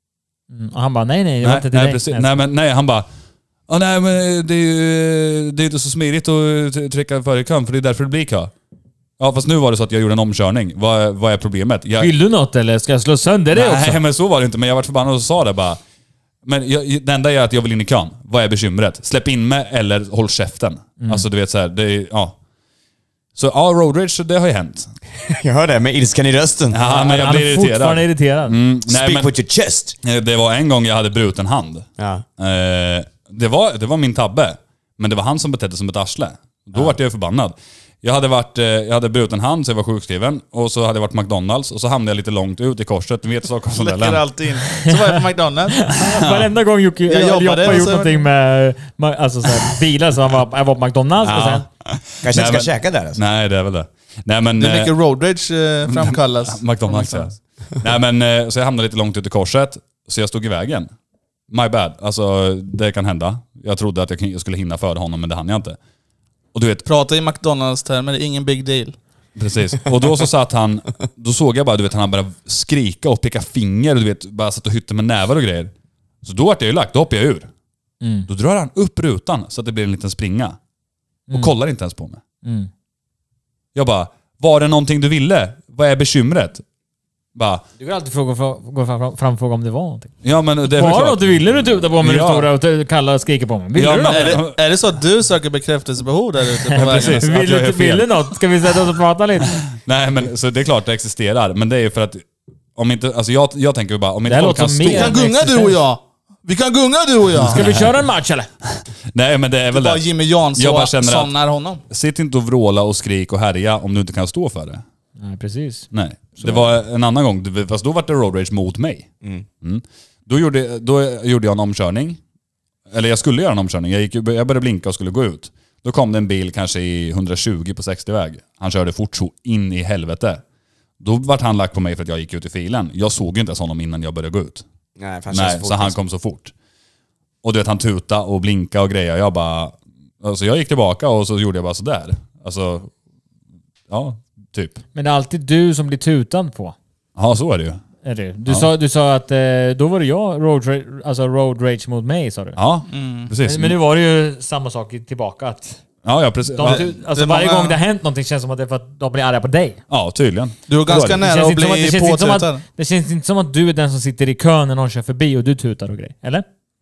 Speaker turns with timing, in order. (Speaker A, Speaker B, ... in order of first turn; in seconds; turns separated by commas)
Speaker A: 0.5-2.3, Speaker B: 1.4-3.1, Speaker B: 3.7-8.5, Speaker B: 9.2-12.1, Speaker A: 12.0-14.0, Speaker B: 13.5-15.8, Speaker B: 16.4-22.4, Speaker A: 21.0-21.2, Speaker B: 23.3-24.9, Speaker C: 25.2-26.8, Speaker B: 26.7-29.3, Speaker A: 26.8-28.6, Speaker C: 28.9-30.0, Speaker B: 30.0-44.2, Speaker C: 32.0-32.2, Speaker D: 43.7-45.9, Speaker A: 44.7-45.0, Speaker A: 45.8-51.6, Speaker B: 46.0-46.5, Speaker D: 47.1-48.2, Speaker B: 51.2-54.9, Speaker C: 52.2-53.2, Speaker D: 54.6-57.3, Speaker B: 55.9-60.9, Speaker B: 61.5-65.8, Speaker B: 66.5-66.8, Speaker D: 66.8-69.0, Speaker B: 69.3-75.7, Speaker B: 76.2-77.5, Speaker A: 78.0-78.3, Speaker B: 78.3-80.6, Speaker B: 81.3-82.2, Speaker A: 82.4-82.7, Speaker B: 83.7-86.6, Speaker B: 87.3-87.6, Speaker A: 87.8-90.1, Speaker B: 90.2-92.5, Speaker A: 90.7-94.4, Speaker B: 93.7-94.6, Speaker D: 94.1-97.3, Speaker A: 96.7-99.6, Speaker B: 96.7-98.2, Speaker B: 99.7-102.2, Speaker B: 102.8-105.2, Speaker A: 104.3-105.8, Speaker D: 104.9-107.7, Speaker B: 107.3-107.9, Speaker A: 107.5-108.5, Speaker B: 108.7-111.3, Speaker D: 109.7-111.8, Speaker B: 111.9-114.8, Speaker A: 115.2-116.7, Speaker B: 115.9-119.1, Speaker B: 119.6-122.2, Speaker B: 122.9-130.4, Speaker B: 131.0-134.6, Speaker C: 135.0-136.0, Speaker B: 135.3-136.5, Speaker B: 137.4-142.9, Speaker B: 143.9-144.8, Speaker A: 144.9-146.7, Speaker B: 147.2-147.8, Speaker A: 148.0-152.6, Speaker B: 148.4-148.7, Speaker B: 152.6-153.8, Speaker D: 152.9-153.3, Speaker A: 153.4-155.8, Speaker B: 156.0-156.8, Speaker A: 156.5-159.8, Speaker D: 156.6-157.8, Speaker B: 159.9-161.2, Speaker D: 160.7-162.6, Speaker A: 161.2-166.4